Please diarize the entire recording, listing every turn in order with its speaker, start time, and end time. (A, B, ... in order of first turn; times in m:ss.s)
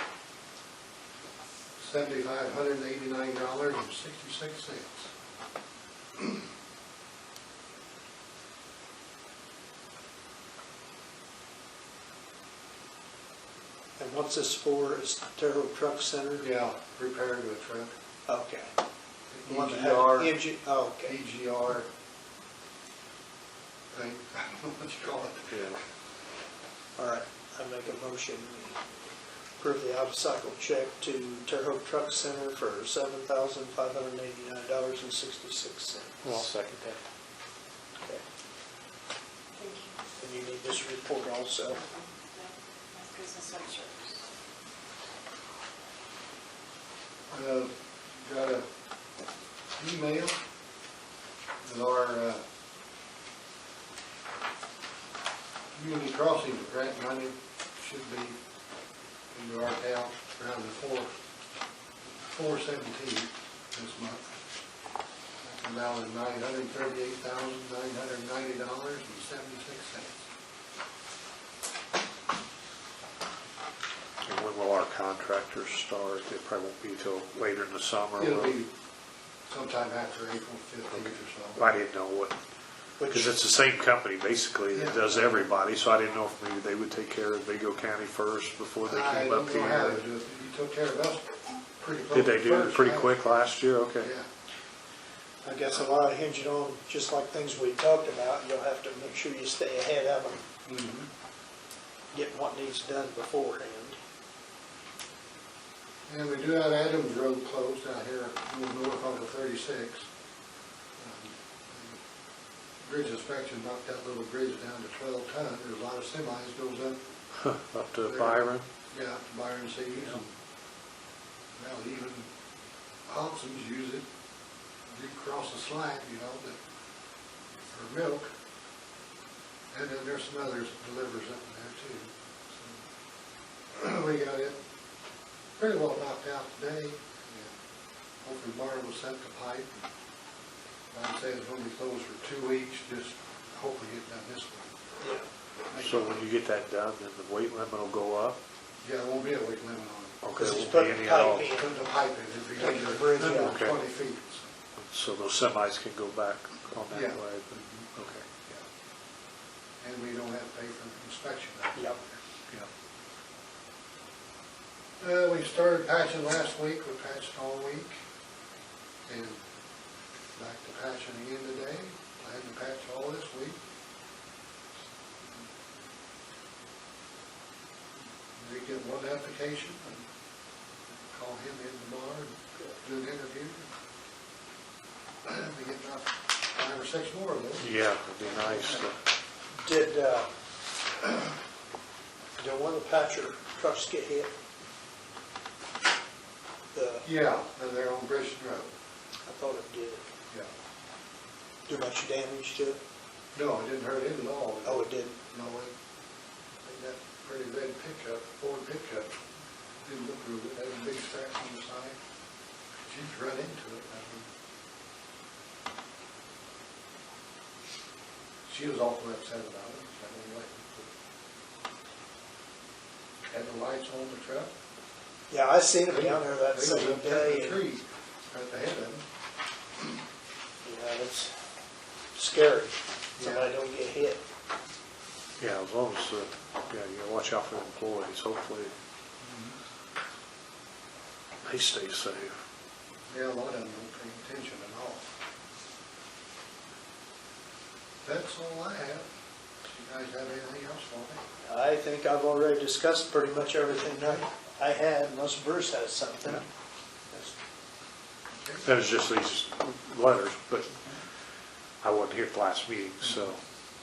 0:01.8-0:05.1 A
0:14.0-0:16.4 B
0:16.4-0:17.9 A
0:18.3-0:18.7 B
0:19.3-0:20.5 A
0:19.5-0:21.1 B
0:21.0-0:21.9 A
0:23.9-0:25.8 A
0:25.5-0:25.8 C
0:27.0-0:28.8 B
0:29.6-0:36.5 B
0:36.2-0:37.0 C
0:39.6-0:39.9 D
0:40.2-0:41.8 B
0:41.9-0:44.2 D
0:47.3-0:48.6 A
0:49.8-0:50.4 A
0:51.6-0:52.4 A
0:55.7-0:58.4 A
0:59.3-1:01.1 A
1:02.2-1:04.4 A
1:05.4-1:10.2 A
1:14.2-1:18.5 C
1:18.2-1:18.7 A
1:19.5-1:21.6 A
1:20.9-1:22.4 C
1:23.0-1:23.4 B
1:23.1-1:30.0 C
1:24.7-1:25.4 A
1:28.8-1:33.4 A
1:32.1-1:34.1 C
1:34.0-1:34.3 A
1:35.4-1:40.4 B
1:40.6-1:41.1 A
1:42.1-1:44.0 B
1:46.1-1:50.1 A
1:51.0-1:52.0 A
1:52.8-1:57.0 A
1:57.4-1:58.6 C
1:58.1-2:00.3 A
2:01.6-2:02.3 A
2:03.1-2:04.0 A
2:04.9-2:06.6 A
2:07.7-2:08.3 A
2:09.7-2:12.8 A
2:13.7-2:14.6 A
2:15.6-2:17.5 A
2:18.2-2:19.7 A
2:20.9-2:24.7 A
2:25.0-2:25.2 B
2:25.7-2:26.1 A
2:25.8-2:28.4 C
2:28.8-2:30.2 A
2:30.2-2:31.5 C
2:30.4-2:31.7 B
2:31.5-2:34.5 A
2:32.6-2:33.6 B
2:33.3-2:33.8 C
2:34.8-2:38.3 C
2:36.9-2:37.2 A
2:39.8-2:42.1 A
2:45.0-2:48.0 A
2:49.1-2:49.4 A
2:50.3-2:53.6 A
2:58.4-3:00.0 A
3:01.0-3:03.7 A
3:05.2-3:07.7 A
3:07.6-3:09.0 C
3:09.6-3:10.3 B
3:12.4-3:14.3 B
3:16.7-3:17.0 B
3:17.0-3:18.7 A
3:19.3-3:20.0 B
3:21.7-3:22.8 B
3:23.3-3:25.7 A
3:24.6-3:25.2 B
3:26.6-3:29.2 A
3:29.8-3:32.0 A
3:32.9-3:34.3 A
3:38.4-3:40.9 A
3:43.3-3:44.5 A
3:45.3-3:47.6 B
3:45.9-3:49.0 A
3:50.6-3:51.3 B
3:52.1-3:54.2 B
3:53.2-3:53.5 A
3:55.4-3:58.7 C
3:59.2-3:59.6 A
4:01.4-4:02.4 C
4:03.1-4:05.1 A
4:08.0-4:09.1 A
4:09.7-4:11.2 A
4:11.4-4:16.4 B
4:18.4-4:18.6 A
4:18.6-4:20.8 C
4:21.8-4:23.4 C